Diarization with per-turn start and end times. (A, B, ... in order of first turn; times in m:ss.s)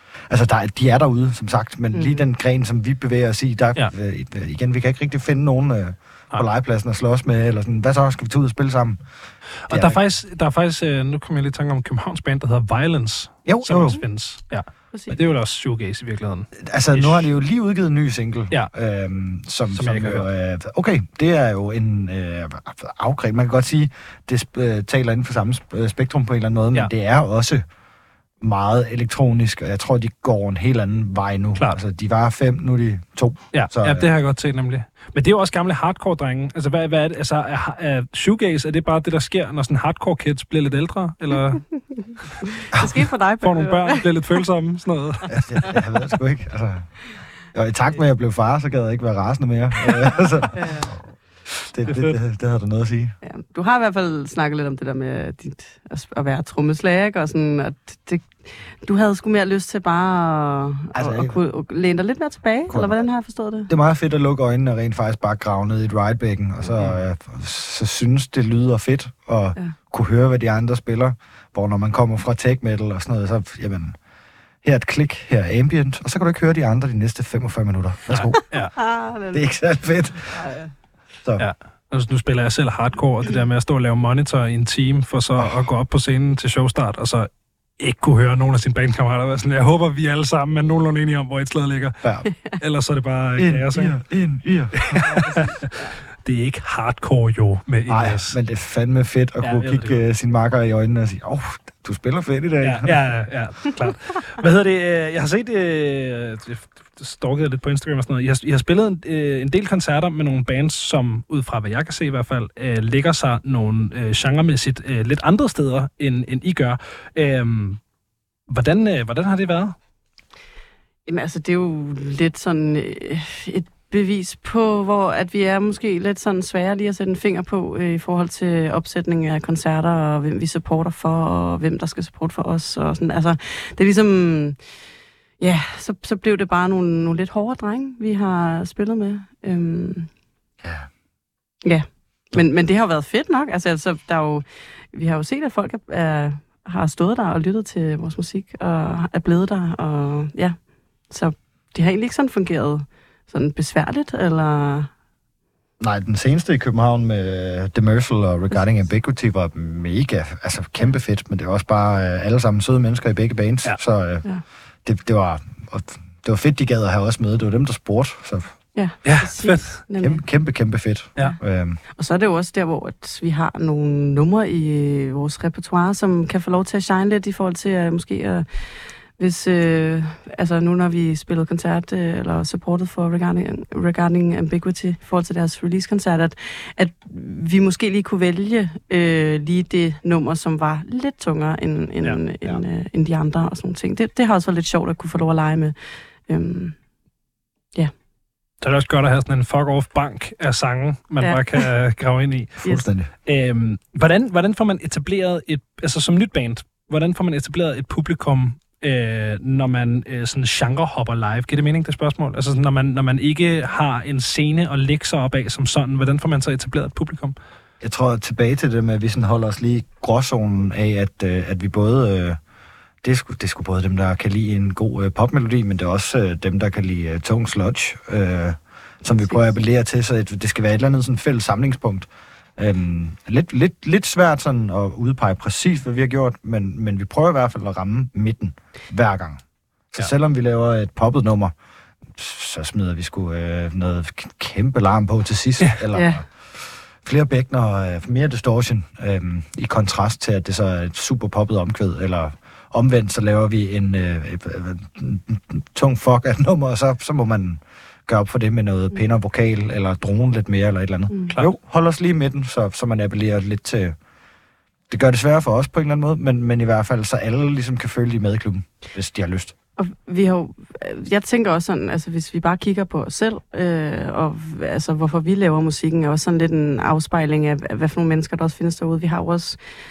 0:00.3-0:09.1 A
0:01.9-0:02.2 B
0:09.7-0:17.3 C
0:09.7-0:10.0 A
0:13.5-0:14.0 A
0:14.9-0:15.2 B
0:16.6-0:27.6 A
0:19.7-0:20.3 C
0:28.4-0:34.1 A
0:33.5-0:42.2 C
0:42.0-0:44.1 B
0:43.4-0:45.6 C
0:45.3-0:51.1 A
0:50.5-0:51.0 B
0:51.7-0:53.2 A
0:51.8-0:52.2 C
0:53.2-1:03.7 B
1:00.9-1:01.4 A
1:02.7-1:03.0 A
1:03.7-1:14.0 A
1:14.6-1:20.5 A
1:18.1-1:18.8 C
1:18.4-1:19.5 B
1:20.3-1:20.7 B
1:21.4-1:34.0 C
1:32.0-1:32.3 A
1:33.4-1:35.4 A
1:34.8-1:38.4 C
1:35.0-1:35.9 B
1:37.9-1:43.1 A
1:39.4-1:40.0 C
1:42.6-1:57.8 C
1:58.5-1:59.8 C
2:01.1-2:14.6 B
2:15.4-2:20.1 B
2:20.6-2:20.9 A
2:21.6-2:34.9 B
2:35.8-2:44.3 A
2:44.8-2:48.6 A
2:48.8-2:50.2 B
2:49.0-2:49.8 C
2:50.0-2:51.8 A
2:51.2-3:15.8 B
3:16.3-3:16.8 B
3:18.6-3:22.7 C
3:21.2-3:21.7 B
3:22.6-3:23.1 A
3:23.2-3:37.4 C
3:37.8-3:42.4 A
3:43.0-4:01.5 A
4:02.1-4:24.0 A
4:05.9-4:06.2 B
4:24.9-4:29.5 A
4:29.8-4:39.6 B